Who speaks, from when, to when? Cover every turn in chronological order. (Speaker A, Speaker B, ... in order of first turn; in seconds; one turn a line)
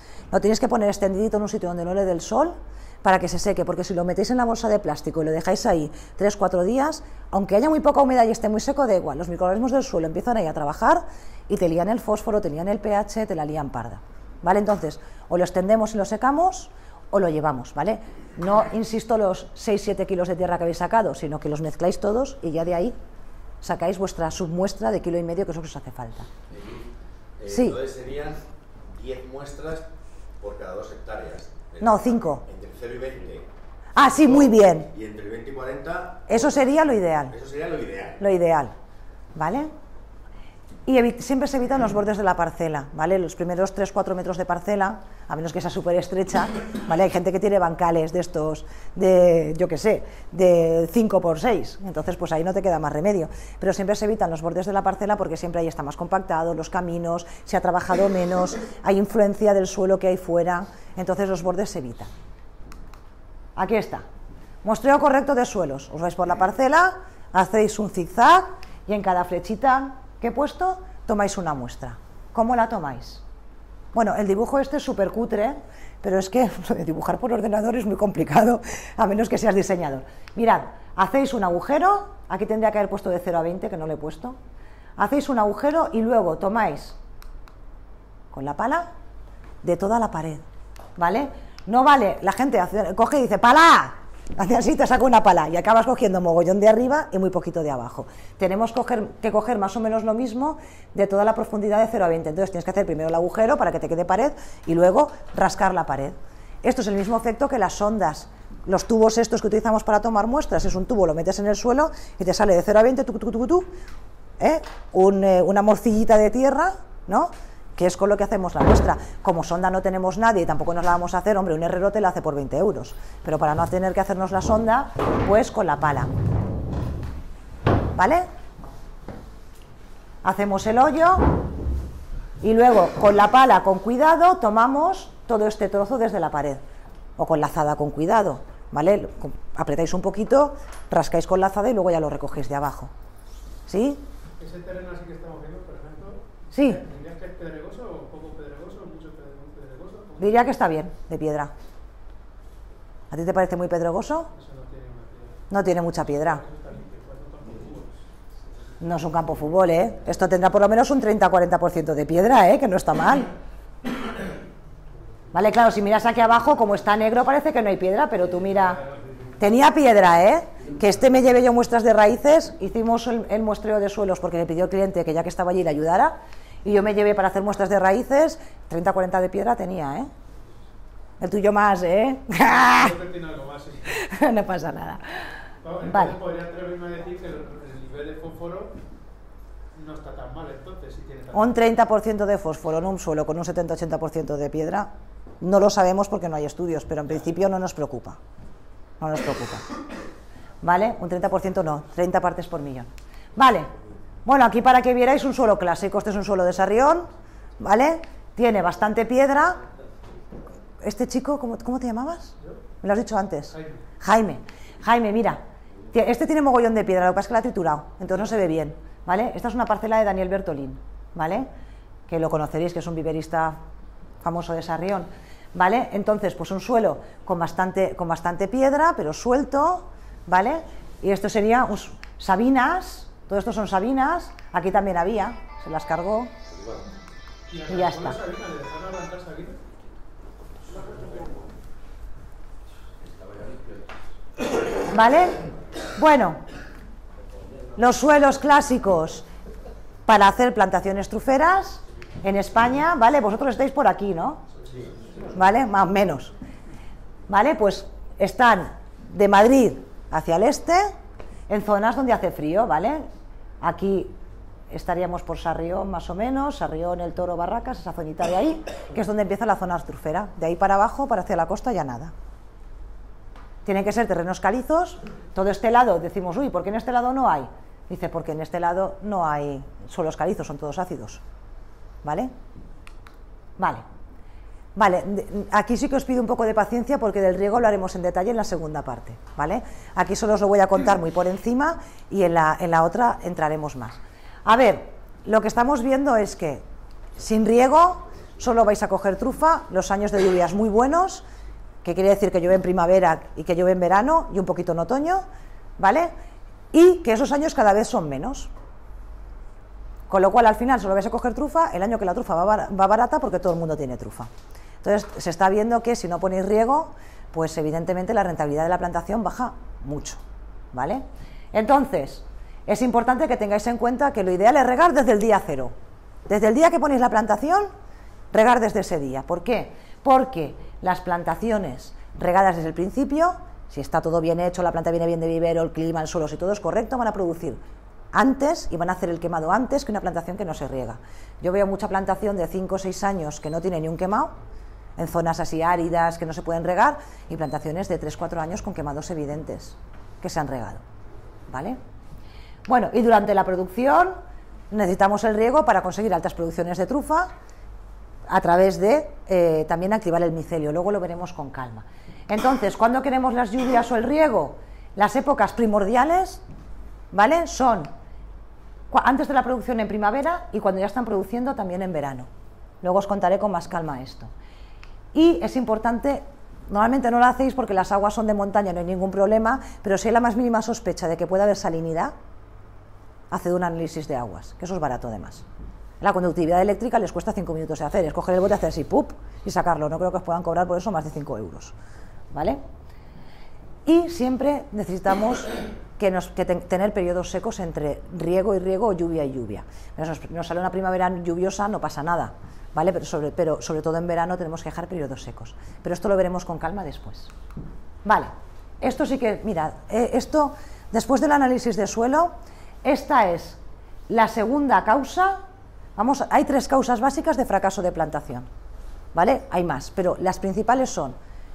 Speaker A: 0.3-22.9
Speaker A: 23.6-26.3
Speaker B: 26.5-29.9
Speaker A: 27.5-27.8
Speaker B: 30.4-33.5
Speaker A: 31.8-32.4
Speaker A: 33.9-34.9
Speaker B: 34.1-36.7
Speaker A: 36.3-37.4
Speaker B: 37.3-38.2
Speaker A: 38.2-38.7
Speaker A: 39.4-39.7
Speaker A: 40.9-62.1
Speaker A: 63.6-64.0
Speaker A: 64.6-73.2
Speaker A: 73.9-84.4
Speaker A: 85.0-87.0
Speaker A: 88.3-88.9
Speaker A: 89.6-90.4
Speaker A: 91.0-113.7
Speaker A: 114.4-126.1
Speaker A: 128.0-128.3
Speaker A: 130.2-131.3
Speaker A: 132.4-136.6
Speaker A: 137.2-142.9
Speaker A: 143.7-144.0
Speaker C: 144.4-150.5
Speaker A: 146.5-146.8
Speaker A: 150.2-151.5
Speaker A: 153.1-154.3
Speaker C: 154.3-155.4
Speaker A: 155.5-156.4
Speaker C: 156.1-158.0
Speaker A: 158.8-163.3
Speaker A: 165.3-168.8
Speaker C: 168.8-169.4
Speaker A: 169.4-180.1
Speaker A: 181.2-182.9
Speaker C: 182.5-183.9
Speaker A: 183.9-185.2
Speaker C: 185.6-188.8
Speaker A: 185.8-186.2
Speaker C: 189.7-191.6
Speaker A: 191.3-198.2
Speaker A: 199.0-199.6
Speaker A: 200.6-203.7
Speaker A: 204.3-209.6
Speaker A: 210.8-215.4
Speaker C: 213.5-213.8
Speaker A: 215.9-221.5
Speaker A: 222.1-223.6
Speaker A: 224.2-236.3
Speaker B: 236.5-236.9
Speaker C: 237.5-239.6
Speaker A: 237.7-238.2
Speaker B: 243.0-243.9
Speaker A: 244.9-245.4
Speaker A: 245.9-246.4
Speaker A: 247.8-249.3
Speaker A: 250.1-254.4
Speaker A: 255.3-256.3
Speaker A: 257.3-260.9
Speaker A: 261.5-263.1
Speaker A: 263.6-264.2
Speaker A: 264.7-272.1
Speaker A: 273.7-281.2
Speaker A: 282.0-282.3
Speaker A: 283.6-283.8
Speaker A: 284.8-296.6
Speaker A: 297.2-301.2
Speaker A: 301.8-305.2
Speaker A: 305.8-306.1
Speaker A: 306.7-308.5
Speaker A: 310.1-314.3
Speaker A: 314.8-320.2
Speaker A: 320.7-325.7
Speaker A: 326.3-327.7
Speaker A: 328.3-337.6
Speaker A: 338.1-344.3
Speaker A: 345.0-350.8
Speaker A: 351.5-351.8
Speaker A: 352.7-354.2
Speaker A: 354.7-357.3
Speaker A: 358.3-366.4
Speaker A: 367.1-367.9
Speaker A: 368.9-372.3
Speaker A: 372.8-374.3
Speaker A: 375.1-382.1
Speaker A: 383.3-385.4
Speaker A: 386.0-391.7
Speaker A: 392.3-392.6
Speaker A: 393.9-407.3
Speaker A: 408.1-412.3
Speaker A: 412.8-413.6
Speaker A: 414.1-415.4
Speaker A: 415.9-418.5
Speaker A: 419.1-421.2